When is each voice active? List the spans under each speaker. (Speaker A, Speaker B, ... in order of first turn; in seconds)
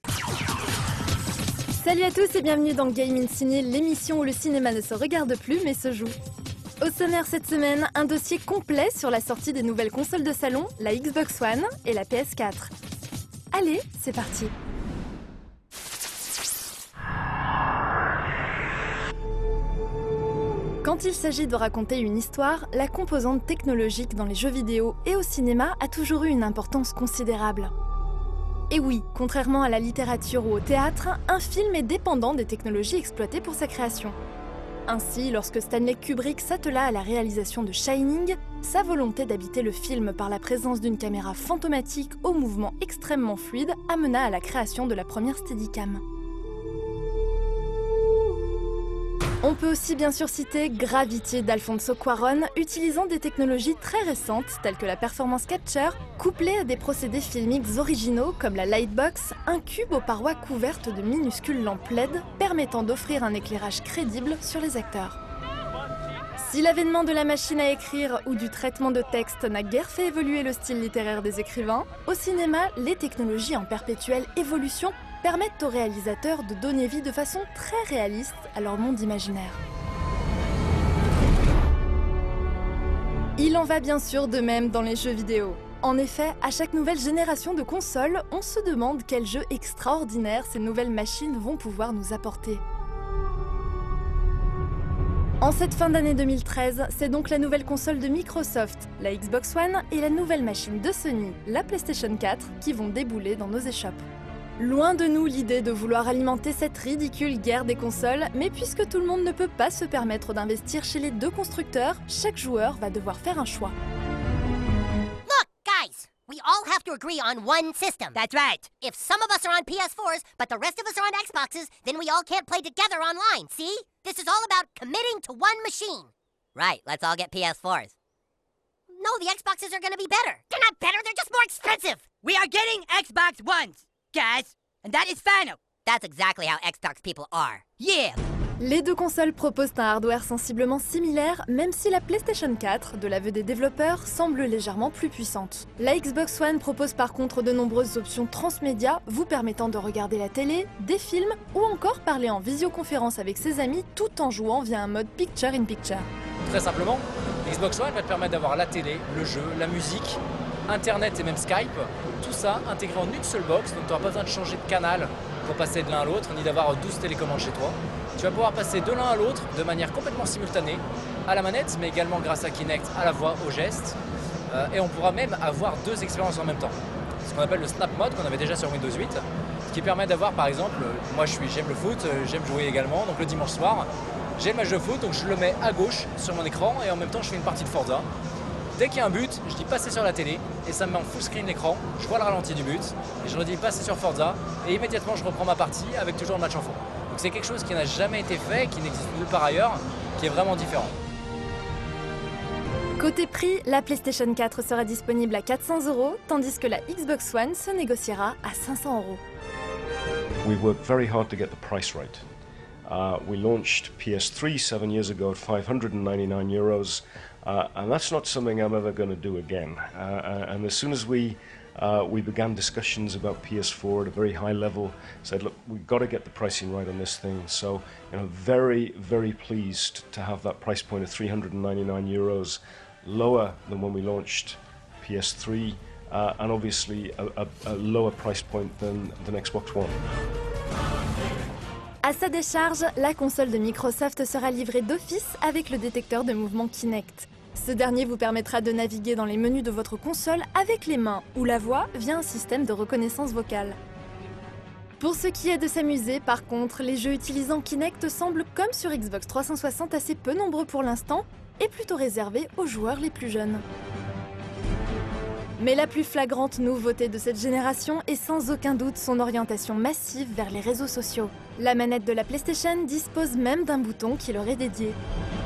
Speaker A: 1.8-6.2, 6.8-12.7, 13.5-14.5, 20.8-27.7, 28.7-34.1, 34.9-46.0, 49.4-65.2, 66.4-79.6, 83.4-92.6, 95.4-104.0, 104.6-113.8, 138.6-156.1, 203.0-209.2, 242.0-253.8, 255.0-263.6, 265.6-275.0
Speaker B: 115.3-118.1, 118.8-127.9, 128.9-132.0, 135.9-137.6
Speaker C: 118.1-118.7, 132.2-135.6, 137.8-138.2
Speaker D: 156.5-174.0, 174.5-188.1, 188.8-201.0
Speaker E: 210.4-212.2, 212.9-239.9